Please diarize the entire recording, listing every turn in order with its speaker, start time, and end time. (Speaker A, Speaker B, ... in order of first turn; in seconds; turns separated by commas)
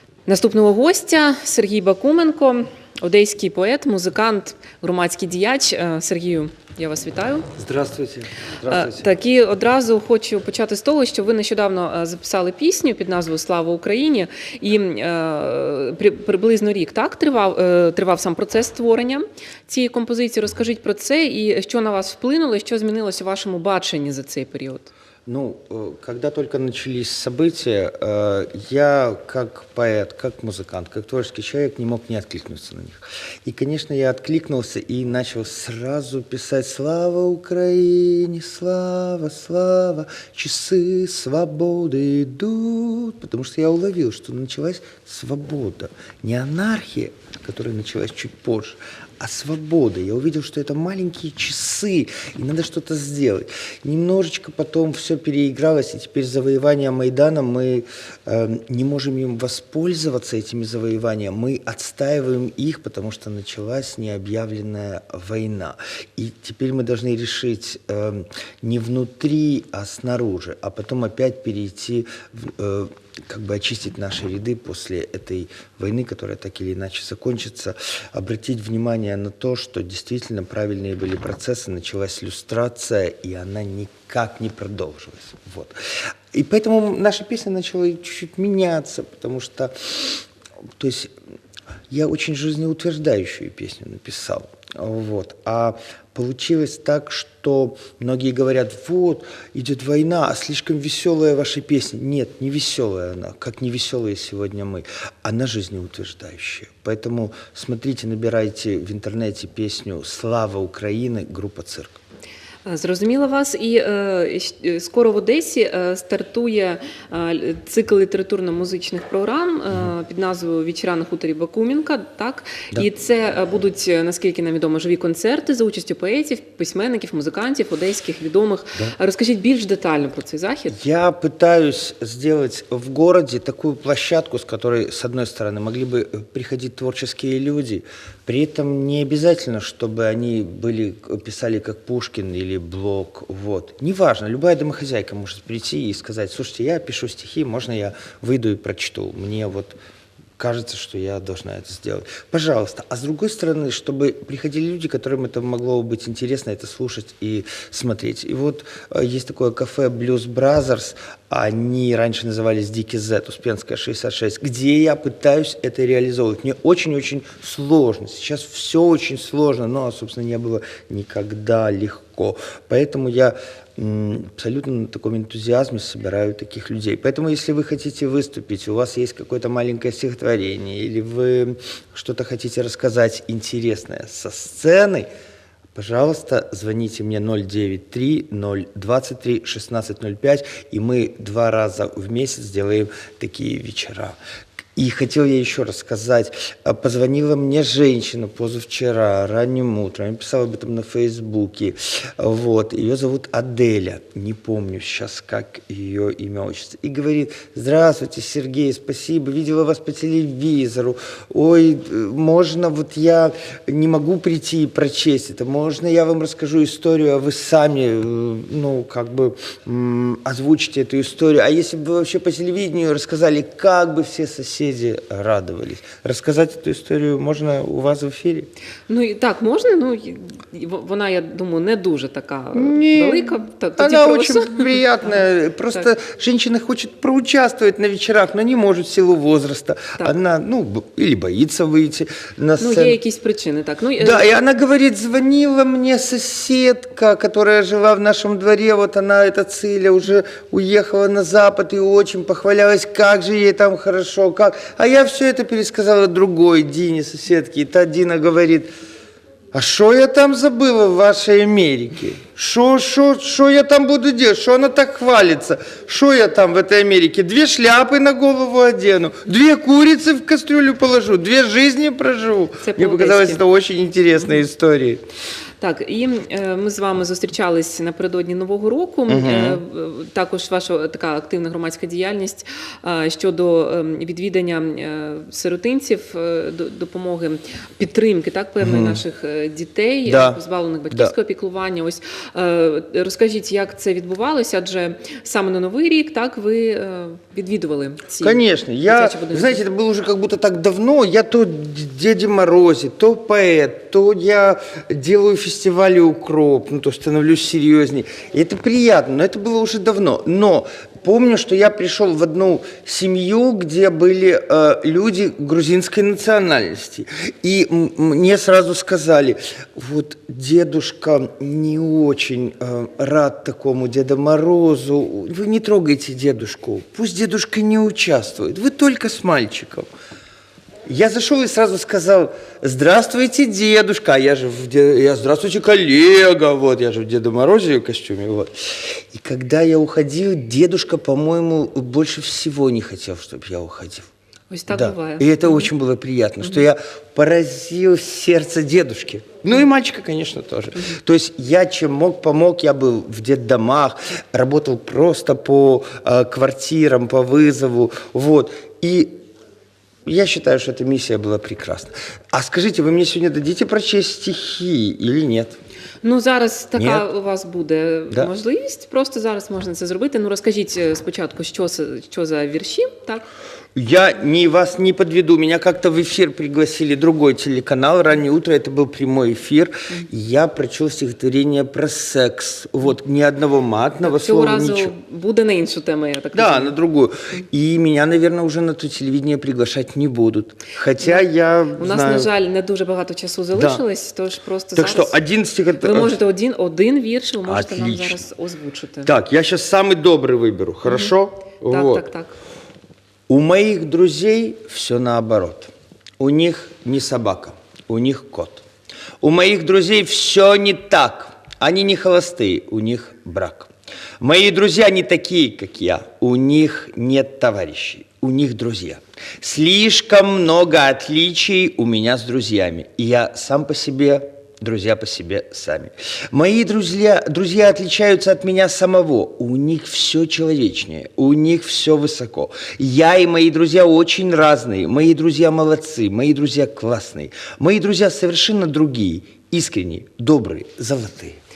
Speaker A: 0.3-7.5, Speaker B: 7.6-9.1, Speaker A: 8.7-24.9, Speaker B: 25.2-85.7, Speaker B: 86.3-90.2, Speaker B: 90.8-91.1, Speaker B: 91.9-112.0, Speaker A: 112.6-130.8, Speaker B: 130.7-149.8, Speaker B: 150.4-185.1, Speaker B: 185.7-194.2, Speaker B: 194.8-228.5, Speaker A: 228.9-235.2, Speaker B: 232.5-243.0, Speaker A: 242.6-244.3, Speaker B: 244.0-258.7, Speaker B: 259.5-275.0, Speaker A: 272.6-273.4, Speaker A: 275.6-299.6, Speaker B: 279.1-279.6, Speaker B: 288.6-289.0, Speaker B: 290.1-290.4, Speaker B: 298.2-329.9, Speaker B: 330.9-344.1, Speaker A: 344.5-345.7, Speaker B: 344.7-359.1, Speaker B: 360.1-365.6, Speaker A: 366.0-373.2, Speaker B: 366.8-367.1, Speaker B: 373.7-384.9, Speaker A: 384.0-386.7, Speaker B: 386.3-392.3, Speaker A: 391.0-391.2, Speaker A: 391.8-395.2, Speaker B: 393.5-393.8, Speaker B: 394.7-396.2, Speaker A: 395.8-399.1, Speaker B: 397.4-398.2, Speaker B: 399.0-402.1, Speaker A: 400.9-401.1, Speaker A: 401.6-402.3, Speaker B: 403.3-408.6, Speaker B: 409.2-413.7, Speaker B: 414.2-441.4